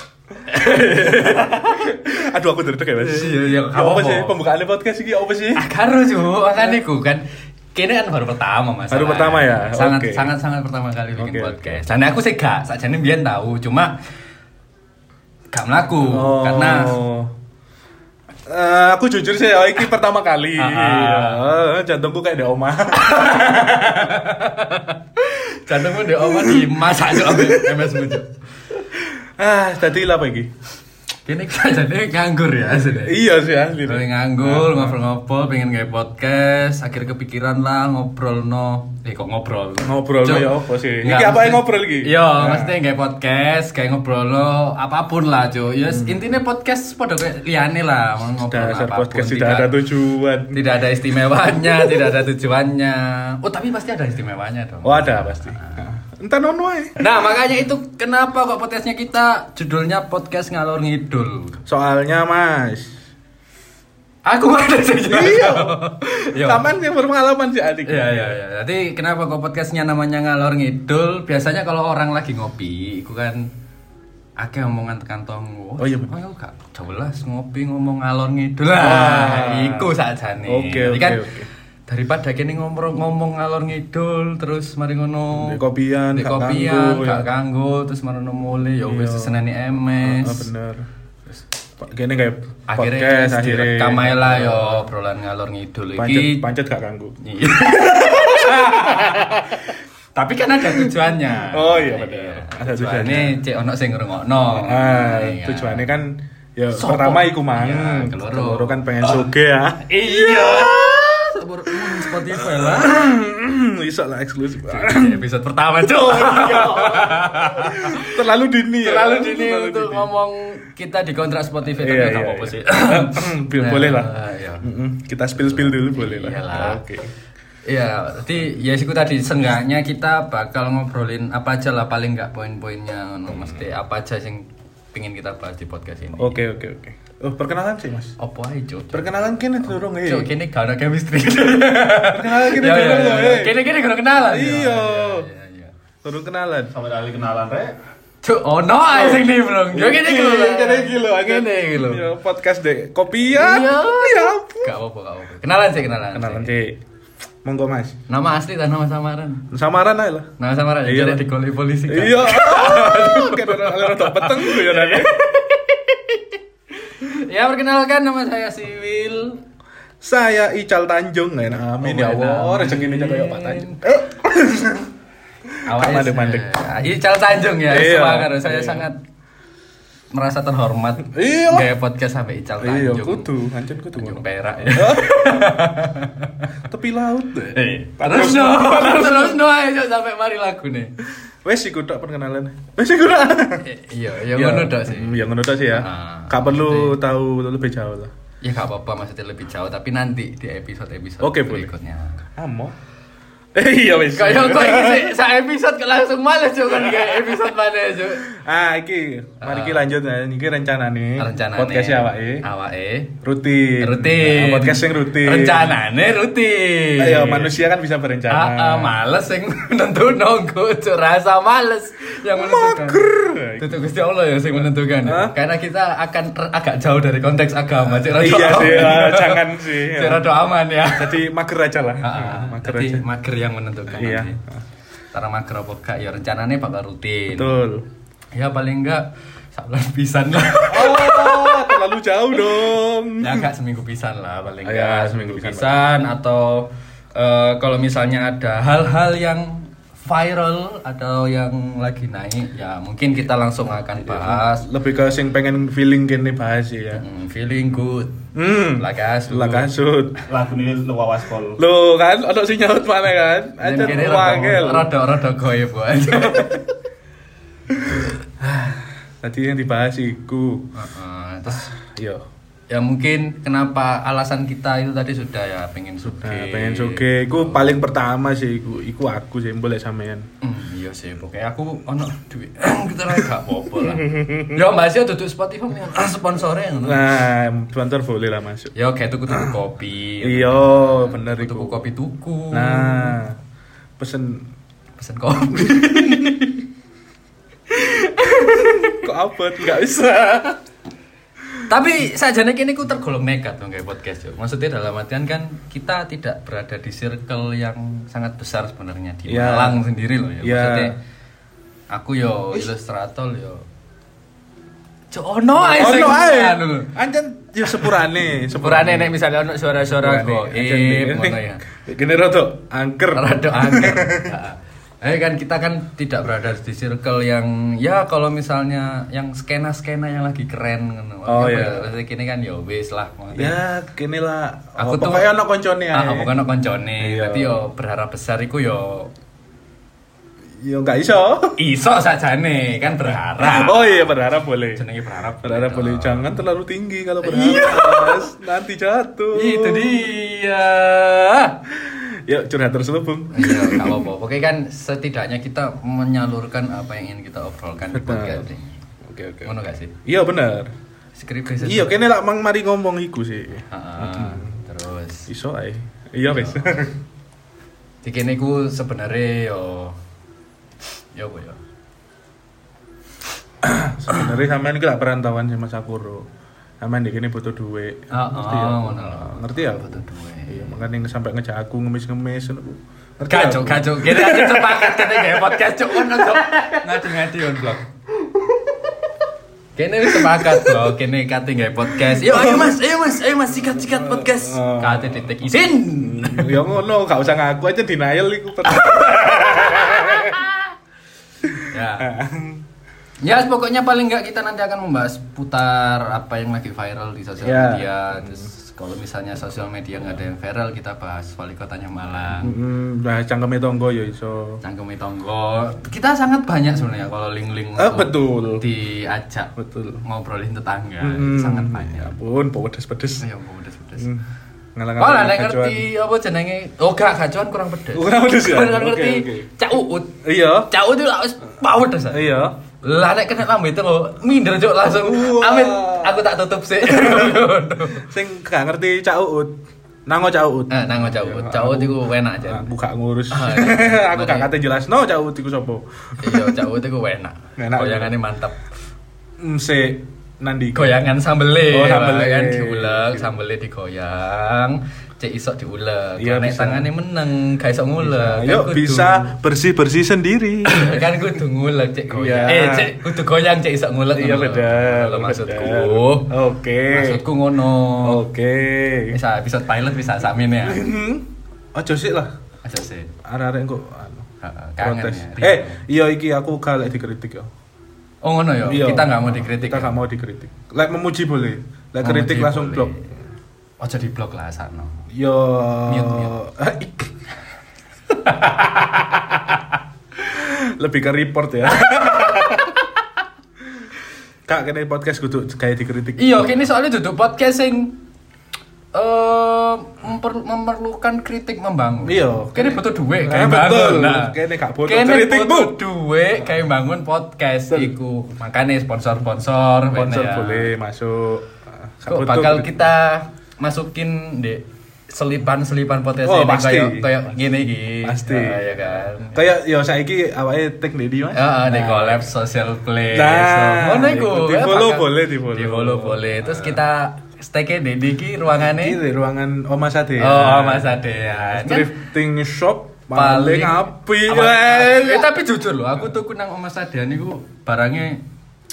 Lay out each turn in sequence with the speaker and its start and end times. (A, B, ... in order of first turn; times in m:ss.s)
0:00.4-0:05.6 A
0:00.5-0:02.1 B
0:03.0-0:04.4 B
0:05.6-0:07.2 B
0:06.6-0:06.8 A
0:07.7-0:13.9 B
0:08.9-0:10.3 A
0:11.2-0:11.8 A
0:15.5-0:17.0 B
0:16.0-0:17.3 A
0:18.5-0:24.2 A
0:20.6-0:21.4 B
0:22.9-0:28.3 B
0:26.0-0:28.1 A
0:28.9-0:30.5 A
0:31.2-0:33.2 B
0:33.0-0:35.0 A
0:33.8-0:49.7 B
0:39.8-0:42.8 A
0:45.9-0:46.2 A
0:48.3-0:50.8 A
0:50.5-0:55.9 B
0:51.4-0:52.2 A
0:54.8-0:57.0 A
0:57.0-1:01.6 B
1:01.6-1:03.0 A
1:04.2-1:06.7 B
1:05.1-1:08.4 A
1:07.8-1:13.4 B
1:14.4-1:21.2 B
1:15.8-1:16.2 A
1:18.8-1:19.9 A
1:20.4-1:21.5 A
1:21.9-1:25.6 B
1:25.3-1:27.3 A
1:26.1-1:30.5 B
1:28.8-1:29.4 A
1:30.0-1:30.8 A
1:31.8-1:34.9 A
1:32.7-1:36.4 B
1:35.9-1:39.7 A
1:37.2-1:39.6 B
1:40.1-1:45.9 B
1:40.6-1:43.4 A
1:44.4-1:51.1 A
1:46.7-1:53.1 B
1:51.7-1:55.2 A
1:54.6-1:58.3 B
1:55.8-2:00.1 A
1:58.8-2:04.7 B
2:01.7-2:07.1 A
2:05.3-2:06.8 B
2:07.6-2:16.4 B
2:13.3-2:13.6 A
2:16.2-2:18.1 A
2:18.2-2:25.7 B
2:18.9-2:20.3 A
2:22.0-2:25.3 A
2:26.0-2:26.7 A
2:26.7-2:27.8 C
2:28.2-2:32.1 B
2:28.9-2:34.7 A
2:30.8-2:31.3 C
2:33.3-2:36.6 B
2:36.1-2:36.8 A
2:37.4-2:38.0 A
2:38.1-2:39.5 B
2:39.5-2:40.3 A
2:40.4-2:49.4 B
2:40.8-2:41.3 A
2:41.9-2:45.2 A
2:50.0-2:54.9 A
2:51.8-2:53.8 B
2:55.5-2:56.5 A
2:55.6-2:59.0 B
2:57.6-2:58.9 A
3:00.1-3:03.3 B
3:01.0-3:01.7 A
3:02.6-3:04.2 A
3:03.9-3:06.4 B
3:04.7-3:05.9 A
3:06.4-3:09.4 A
3:07.5-3:10.9 B
3:11.4-3:13.7 A
3:13.6-3:17.0 B
3:14.3-3:18.1 A
3:18.4-3:22.2 B
3:21.2-3:21.7 A
3:22.4-3:22.7 A
3:23.5-3:25.2 A
3:24.1-3:28.3 B
3:26.7-3:27.4 A
3:28.2-3:32.4 A
3:29.4-3:29.8 B
3:31.2-3:33.1 B
3:33.2-3:35.8 A
3:33.8-3:37.6 B
3:37.0-3:39.0 A
3:38.3-3:43.0 B
3:42.3-3:43.9 A
3:43.6-3:51.2 B
3:45.0-3:45.4 A
3:47.9-3:50.3 A
3:50.8-3:53.0 A
3:52.0-3:54.4 B
3:53.9-3:54.6 A
3:55.1-3:57.6 B
3:57.3-3:57.8 A
3:58.3-4:01.8 B
4:00.7-4:03.5 A
4:03.2-4:14.7 B
4:04.6-4:05.8 A
4:13.9-4:17.0 A
4:16.9-4:18.2 B
4:18.3-4:20.2 A
4:18.8-4:19.7 B
4:20.2-4:21.6 C
4:21.6-4:25.0 A
4:23.6-4:26.6 B
4:26.1-4:26.6 A
4:27.7-4:30.7 A
4:30.7-4:31.7 B
4:31.5-4:32.2 A
4:32.7-4:37.8 B
4:36.0-4:40.2 A
4:40.4-4:47.0 B
4:43.8-4:44.6 A
4:46.8-4:48.7 A
4:48.7-4:53.2 B
4:49.3-4:49.5 A
4:50.2-4:51.8 A
4:52.5-4:53.4 A
4:54.0-4:54.5 A
4:55.0-4:56.6 B
4:55.5-4:56.5 A
4:57.7-4:59.0 B
4:58.3-5:00.6 A
5:01.7-5:10.9 B
5:09.3-5:09.8 A
5:10.4-5:10.9 A
5:11.9-5:13.6 B
5:15.1-5:16.9 B
5:15.6-5:19.2 A
5:17.7-5:21.6 B
5:19.8-5:24.3 A
5:23.1-5:33.6 B
5:31.2-5:31.9 A
5:33.3-5:36.4 A
5:34.8-5:35.3 B
5:35.9-5:39.1 B
5:37.0-5:37.6 A
5:40.6-5:41.6 A
5:41.6-5:44.1 B
5:43.4-5:44.8 A
5:44.7-5:46.4 B
5:45.4-5:50.1 A
5:47.2-5:48.3 B
5:49.3-5:51.6 B
5:51.7-5:54.1 A
5:53.3-5:58.8 B
5:57.9-5:58.4 A
5:59.0-6:00.7 A
5:59.4-6:00.0 B
6:01.2-6:02.0 B
6:01.6-6:04.6 A
6:03.7-6:05.3 B
6:05.3-6:07.0 A
6:06.2-6:06.9 B
6:08.0-6:10.0 B
6:11.1-6:11.6 B
6:13.6-6:16.2 A
6:16.8-6:26.6 A
6:18.1-6:20.8 B
6:23.3-6:27.8 B
6:29.8-6:36.6 B
6:30.1-6:30.9 A
6:32.0-6:32.8 A
6:33.6-6:40.5 A
6:38.8-6:40.6 B
6:41.5-6:42.6 A
6:41.6-6:42.1 B
6:43.2-6:52.5 B
6:47.4-6:48.4 A
6:52.4-6:54.6 A
6:54.6-6:59.5 B
6:57.8-6:58.6 A
6:59.6-7:00.0 A
7:00.0-7:02.1 B
7:01.0-7:03.2 A
7:03.2-7:04.1 B
7:04.0-7:04.2 A
7:04.8-7:05.8 A
7:05.0-7:12.3 B
7:07.9-7:09.5 A
7:10.2-7:10.7 A
7:12.1-7:12.6 A
7:12.8-7:18.1 B
7:14.9-7:16.3 A
7:16.8-7:19.5 A
7:20.0-7:26.6 A
7:20.7-7:22.7 B
7:23.3-7:24.5 B
7:26.2-7:28.6 B
7:27.6-7:28.1 A
7:29.4-7:31.0 A
7:30.7-7:39.3 B
7:31.7-7:33.3 A
7:36.2-7:36.9 A
7:38.0-7:41.3 A
7:40.7-7:46.3 B
7:42.1-7:43.0 A
7:44.1-7:47.2 A
7:46.9-7:48.2 B
7:48.0-7:49.2 A
7:49.1-7:50.8 B
7:50.6-7:52.3 A
7:52.6-7:53.1 B
7:53.2-7:54.2 A
7:54.4-7:55.8 B
7:54.8-7:57.5 A
7:58.2-8:00.0 B
7:58.6-8:02.9 A
8:02.0-8:03.1 B
8:03.8-8:05.0 B
8:05.1-8:07.1 A
8:05.8-8:06.4 B
8:08.1-8:09.6 B
8:10.2-8:12.8 A
8:11.8-8:12.8 B
8:14.5-8:16.6 A
8:16.2-8:18.0 B
8:18.9-8:30.7 B
8:22.0-8:25.8 A
8:27.7-8:27.9 A
8:29.9-8:32.8 A
8:32.1-8:39.4 B
8:36.2-8:37.2 A
8:38.0-8:42.3 A
8:41.3-8:49.0 B
8:43.1-8:46.8 A
8:48.6-8:55.3 A
8:50.2-8:51.9 B
8:53.1-8:58.2 B